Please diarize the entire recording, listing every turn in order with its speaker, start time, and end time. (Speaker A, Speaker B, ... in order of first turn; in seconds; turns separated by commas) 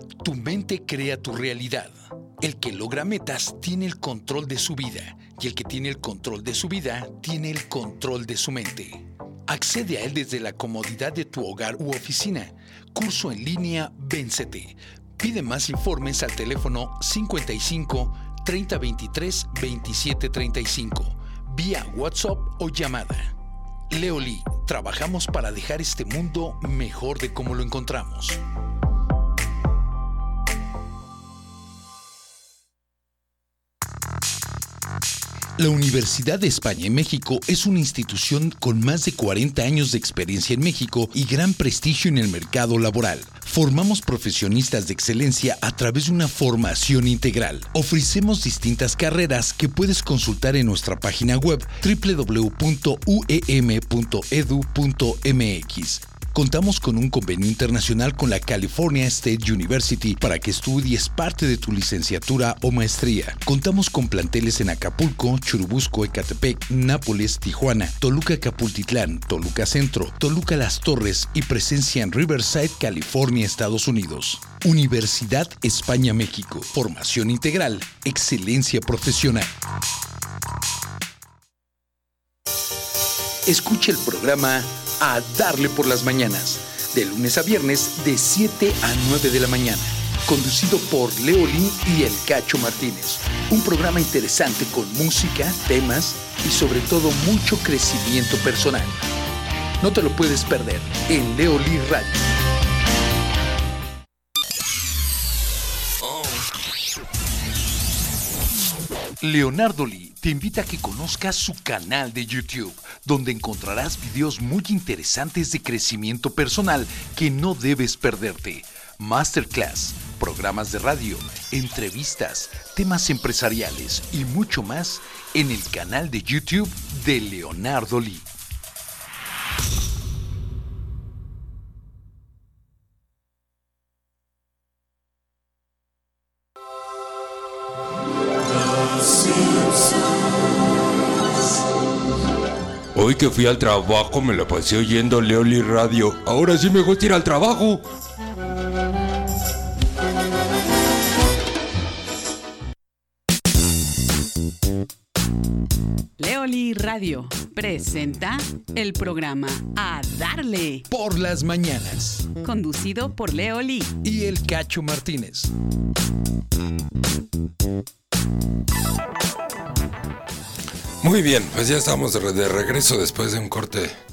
Speaker A: 0.2-23.3, Speaker A: 23.9-28.4, Speaker A: 35.6-79.5, Speaker A: 83.5-99.0, Speaker A: 99.8-102.2, Speaker A: 109.2-128.3, Speaker B: 142.9-147.9, Speaker C: 156.2-160.8, Speaker A: 160.9-162.3, Speaker C: 162.4-163.9, Speaker A: 164.0-165.5, Speaker B: 171.0-173.9